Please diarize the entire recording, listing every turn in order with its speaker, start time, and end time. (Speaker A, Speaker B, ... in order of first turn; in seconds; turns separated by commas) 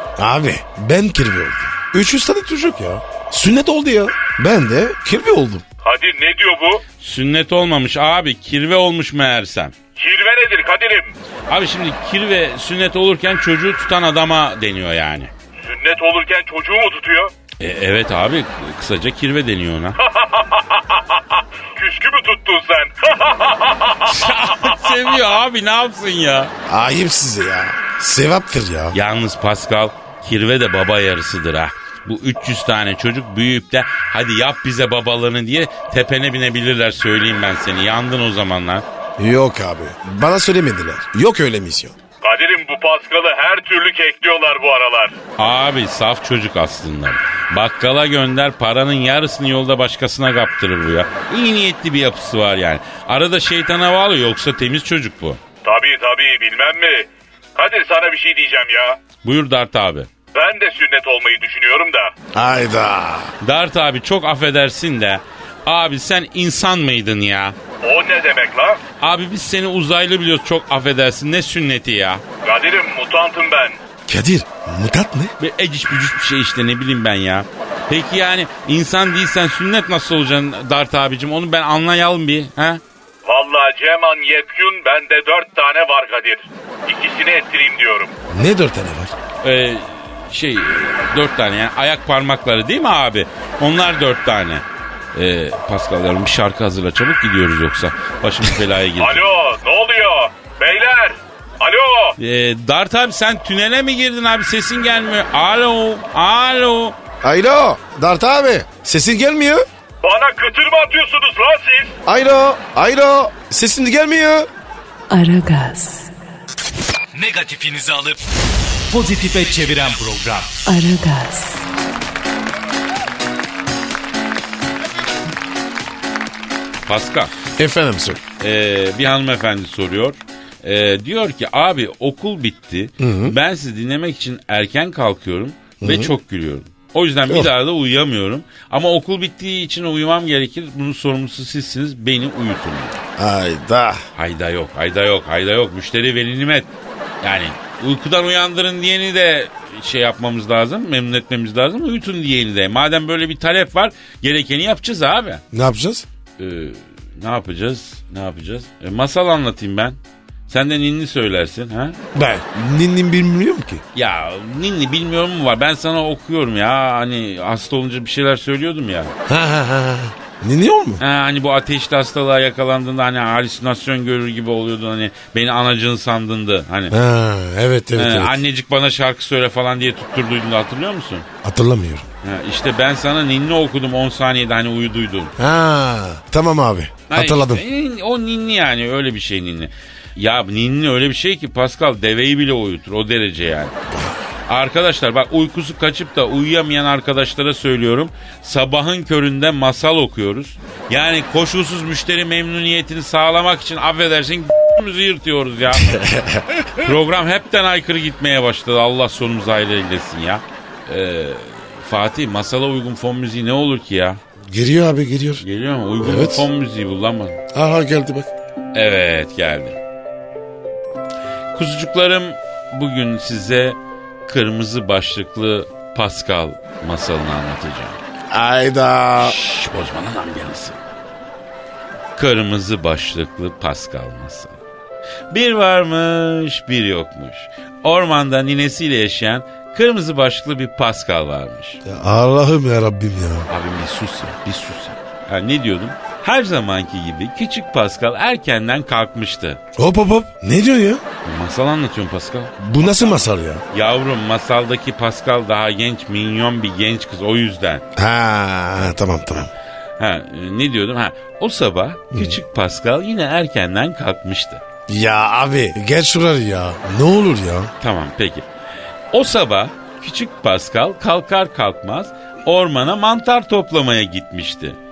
Speaker A: 0.2-5.6, Speaker B: 5.8-6.8, Speaker C: 7.0-9.8, Speaker B: 10.0-11.1, Speaker C: 11.5-15.3, Speaker B: 15.6-17.3, Speaker C: 17.6-20.0, Speaker B: 20.0-21.2, Speaker B: 21.7-25.0, Speaker C: 24.1-26.5, Speaker A: 26.7-29.0, Speaker C: 28.9-38.9, Speaker A: 39.2-42.0, Speaker B: 42.2-45.1, Speaker C: 45.4-55.4, Speaker B: 55.6-59.0, Speaker C: 59.2-60.1, Speaker B: 60.3-62.1, Speaker A: 62.3-63.3, Speaker C: 63.4-67.6, Speaker B: 67.8-68.8, Speaker C: 69.0-72.2, Speaker B: 72.4-73.8, Speaker A: 74.1-75.3, Speaker C: 75.4-82.8, Speaker B: 83.2-88.1, Speaker A: 88.3-89.1, Speaker C: 89.4-99.2, Speaker B: 99.0-102.2, Speaker C: 102.2-107.0, Speaker A: 107.2-109.7, Speaker B: 110.0-112.0, Speaker A: 112.1-114.5, Speaker D: 115.1-116.1, Speaker E: 117.1-118.2, Speaker E: 118.9-120.6, Speaker D: 120.7-121.7, Speaker C: 126.9-127.3, Speaker A: 127.6-128.2, Speaker C: 128.4-143.0, Speaker A: 133.0-133.4, Speaker A: 135.8-136.1, Speaker A: 143.2-144.0, Speaker C: 144.2-146.7, Speaker C: 147.2-155.4, Speaker A: 155.5-156.1, Speaker C: 156.4-160.0, Speaker C: 160.5-162.0, Speaker A: 162.1-163.8, Speaker C: 163.9-169.2, Speaker A: 169.3-171.0, Speaker C: 171.0-176.9, Speaker A: 176.9-178.4, Speaker C: 177.9-181.3, Speaker A: 181.4-182.1, Speaker C: 182.2-185.3, Speaker A: 185.4-187.6, Speaker C: 187.1-193.7, Speaker A: 193.9-194.2, Speaker C: 194.5-206.0, Speaker A: 205.7-206.9, Speaker C: 206.8-214.2, Speaker A: 214.5-215.4, Speaker C: 215.4-217.4, Speaker A: 216.0-216.5, Speaker A: 217.5-218.3, Speaker C: 218.7-219.8, Speaker C: 221.5-228.0, Speaker A: 228.3-229.4, Speaker C: 229.2-230.8, Speaker C: 232.2-234.6, Speaker C: 235.3-241.8, Speaker A: 241.8-243.5, Speaker C: 243.5-249.6, Speaker A: 249.8-251.0, Speaker C: 251.2-257.8, Speaker A: 252.6-253.6, Speaker A: 258.0-259.5, Speaker C: 260.0-264.6, Speaker A: 262.1-262.4, Speaker A: 264.9-267.7, Speaker C: 267.8-268.5, Speaker C: 269.1-274.8